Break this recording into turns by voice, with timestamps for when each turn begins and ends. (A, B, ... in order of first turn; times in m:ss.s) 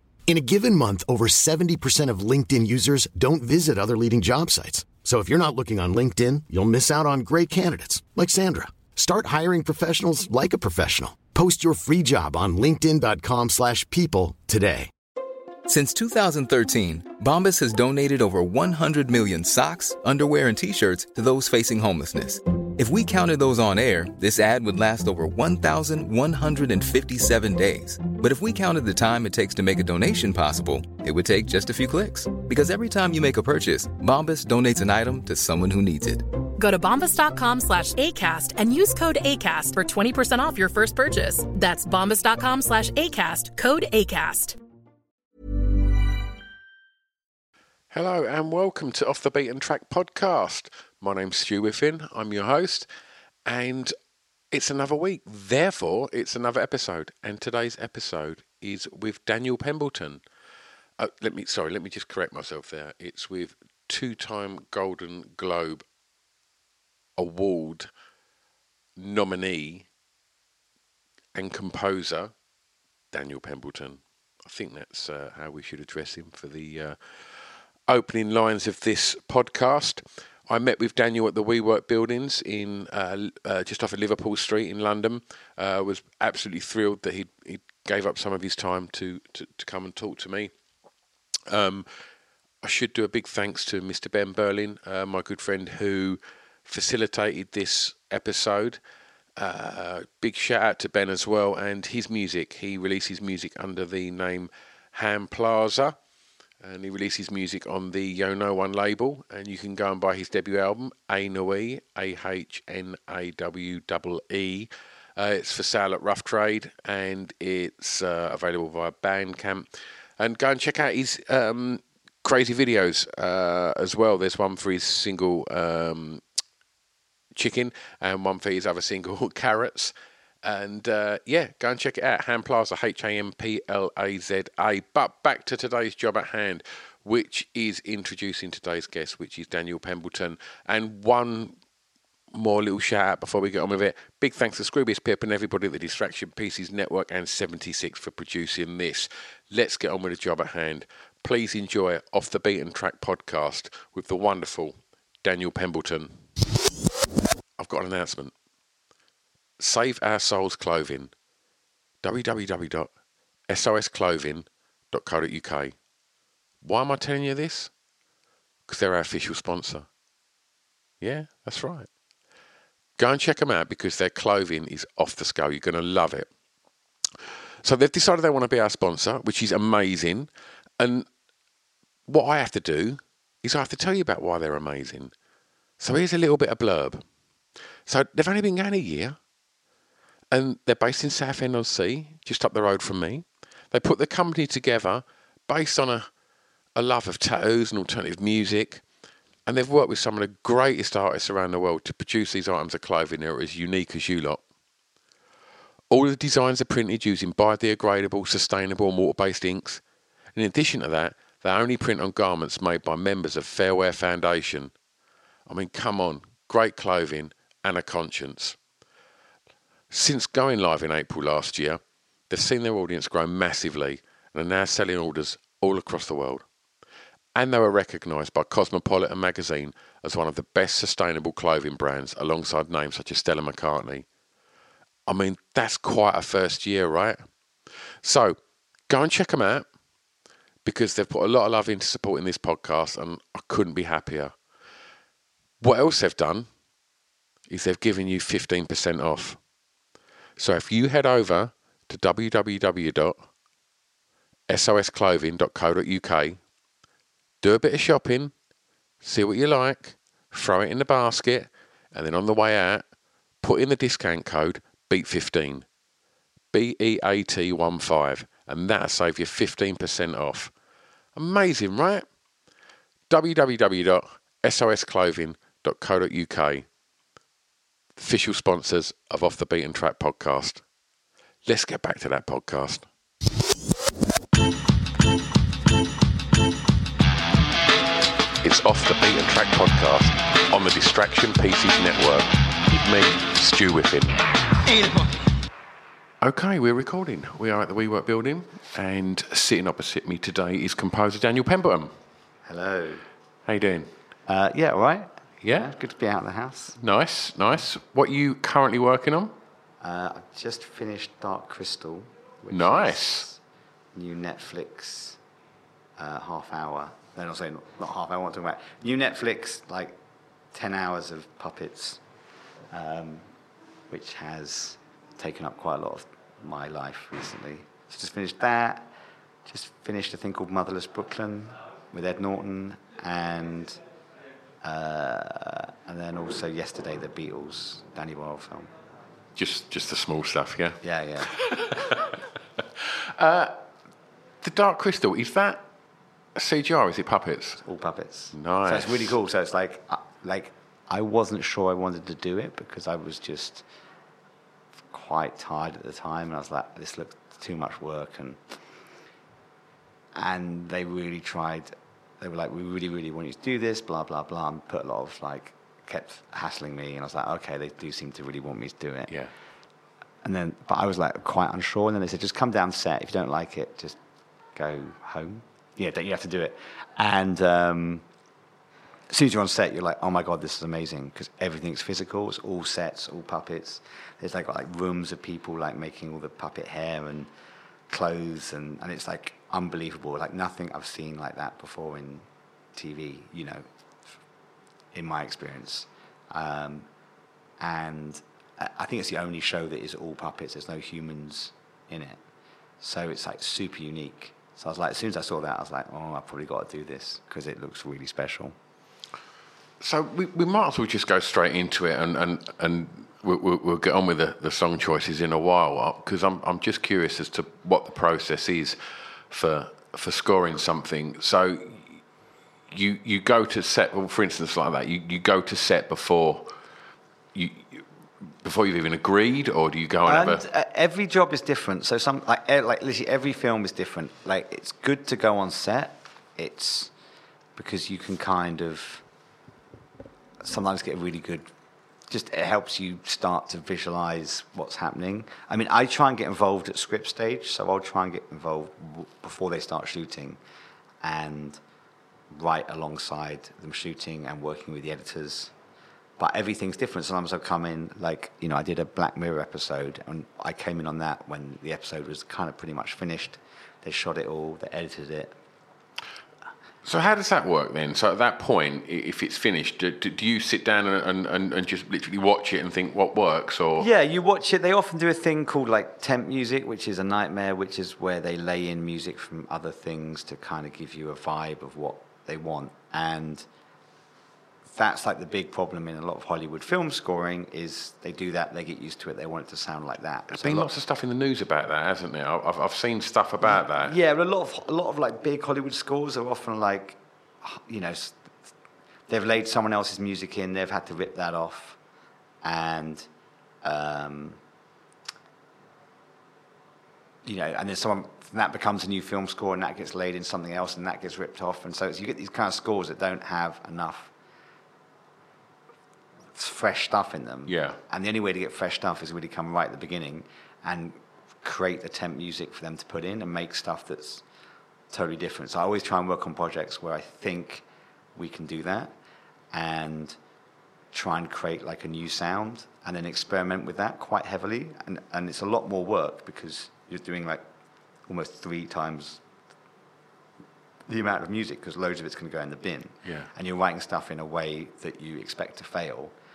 0:00.3-0:14.9 A
0:15.7-0:36.2 B
0:36.6-0:44.6 C
0:47.9-0:52.9 D
0:53.4-0:53.9 D
0:54.5-1:00.2 D
1:01.0-1:05.8 D
1:07.2-1:07.9 D
1:09.0-1:09.9 D
1:11.3-1:12.3 D
1:13.1-1:30.5 D
1:31.5-1:31.9 D
1:32.6-1:38.8 D
1:39.4-1:46.0 D
1:46.6-2:06.2 D
2:07.3-2:21.6 D
2:22.3-2:36.2 D
2:37.6-2:38.3 D
2:39.6-2:41.1 D
2:42.0-2:42.9 D
2:43.5-2:45.8 D
2:46.6-2:47.7 D
2:48.7-2:49.9 D
2:51.0-2:51.9 D
2:53.0-2:56.3 D
2:57.6-3:01.1 D
3:02.1-3:05.1 D
3:05.8-3:07.0 D
3:07.9-3:09.2 D
3:10.3-3:16.1 D
3:16.8-3:18.8 D
3:19.5-3:24.4 D
3:25.9-3:29.8 D
3:30.3-3:34.8 D
3:35.5-3:38.6 D
3:39.9-3:46.4 D
3:47.3-3:54.1 D
3:55.1-3:57.3 D
3:58.0-3:59.7 D
4:00.6-4:04.4 D
4:05.6-4:06.5 D
4:07.5-4:09.4 D
4:10.4-4:13.2 D
4:14.5-4:16.4 D
4:17.4-4:18.3 D
4:19.0-4:22.8 D
4:23.4-4:25.7 D
4:26.5-4:30.5 D
4:31.2-4:32.1 D
4:33.1-4:36.7 D
4:38.0-4:40.6 D
4:41.4-4:42.9 D
4:48.4-4:54.4 D
4:56.2-5:01.9 D
5:02.4-5:03.0 E
5:03.4-5:03.9 D
5:04.3-5:06.8 E
5:05.4-5:05.7 D
5:06.8-5:09.4 D
5:09.8-5:13.4 E
5:12.5-5:13.3 D
5:13.9-5:15.2 E
5:16.0-5:20.0 E
5:20.5-5:22.0 E
5:22.7-5:23.2 E
5:23.9-5:28.9 E
5:29.4-5:33.8 E
5:34.6-5:38.7 E
5:39.4-5:43.6 D
5:40.8-5:41.3 E
5:44.4-5:45.6 D
5:46.4-5:47.6 D
5:47.6-5:53.6 E
5:48.3-5:49.2 D
5:54.9-5:58.4 E
6:00.2-6:09.1 E
6:10.2-6:14.0 E
6:14.6-6:18.0 E
6:19.1-6:27.3 E
6:27.9-6:33.7 E
6:34.9-6:36.9 E
6:37.6-6:42.2 E
6:42.8-6:48.6 E
6:49.8-7:02.0 D
7:02.7-7:06.5 D
7:07.3-7:07.9 D
7:08.4-7:10.4 D
7:10.1-7:16.9 E
7:17.6-7:19.0 E
7:20.4-7:21.5 E
7:22.1-7:30.4 E
7:31.0-7:31.6 E
7:32.3-7:35.5 E
7:36.2-7:45.4 E
7:46.8-7:53.9 D
7:53.8-8:03.4 E
8:04.7-8:10.7 E
8:10.3-8:14.0 D
8:13.4-8:18.2 E
8:19.1-8:21.8 E
8:22.4-8:23.1 E
8:23.6-8:24.4 E
8:27.2-8:34.1 E
8:36.3-8:44.2 E
8:37.4-8:37.8 D
8:44.9-8:47.6 E
8:48.2-8:48.9 E
8:49.5-8:50.2 E
8:50.9-8:57.4 E
8:58.1-8:59.2 E
9:00.9-9:06.1 E
9:03.0-9:03.3 D